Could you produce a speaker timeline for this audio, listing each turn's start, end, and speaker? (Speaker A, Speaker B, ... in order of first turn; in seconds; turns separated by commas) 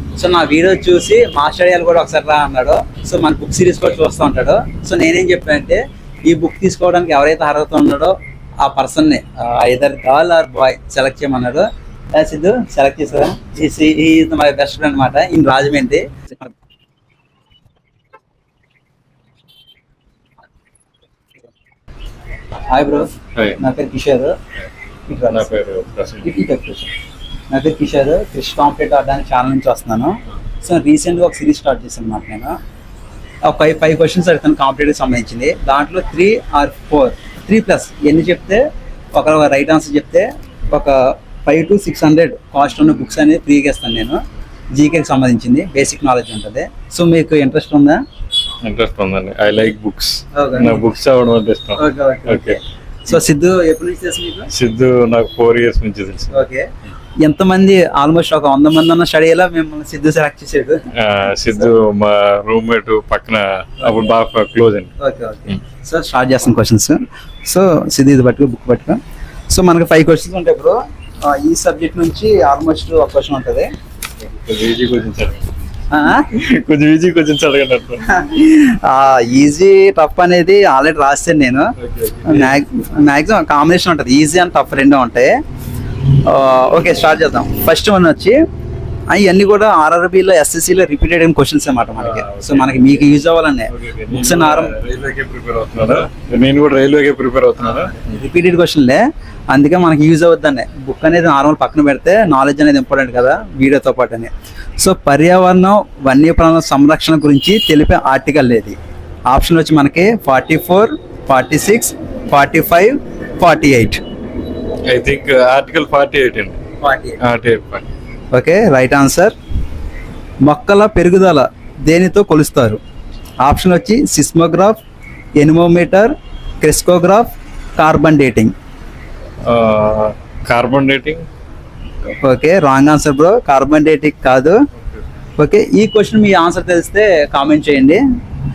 Speaker A: 0.2-16.2, Speaker A: 22.7-24.4, Speaker B: 23.4-23.6, Speaker A: 25.1-25.5, Speaker B: 25.3-26.3, Speaker A: 26.2-26.9, Speaker A: 27.5-32.5, Speaker A: 33.5-38.6, Speaker A: 39.1-44.2, Speaker A: 44.7-48.0, Speaker B: 48.6-52.6, Speaker A: 50.4-50.8, Speaker A: 51.8-54.5, Speaker B: 54.5-56.4, Speaker A: 56.3-56.7, Speaker A: 57.2-60.8, Speaker B: 61.0-64.9, Speaker A: 63.8-64.1, Speaker A: 65.0-73.7, Speaker B: 74.2-75.4, Speaker A: 75.9-76.3, Speaker B: 76.3-78.1, Speaker A: 78.0-81.7, Speaker B: 81.8-82.6, Speaker A: 82.2-85.3, Speaker A: 86.2-88.4, Speaker A: 89.1-94.7, Speaker B: 92.0-93.1, Speaker B: 93.7-98.0, Speaker A: 97.9-108.8, Speaker A: 109.3-114.0, Speaker B: 114.9-116.6, Speaker A: 116.8-117.2, Speaker B: 117.2-117.9, Speaker A: 118.3-119.3, Speaker A: 120.5-122.8, Speaker A: 123.4-124.8, Speaker A: 125.4-128.5, Speaker B: 129.5-131.3, Speaker A: 132.2-134.6, Speaker A: 135.4-138.0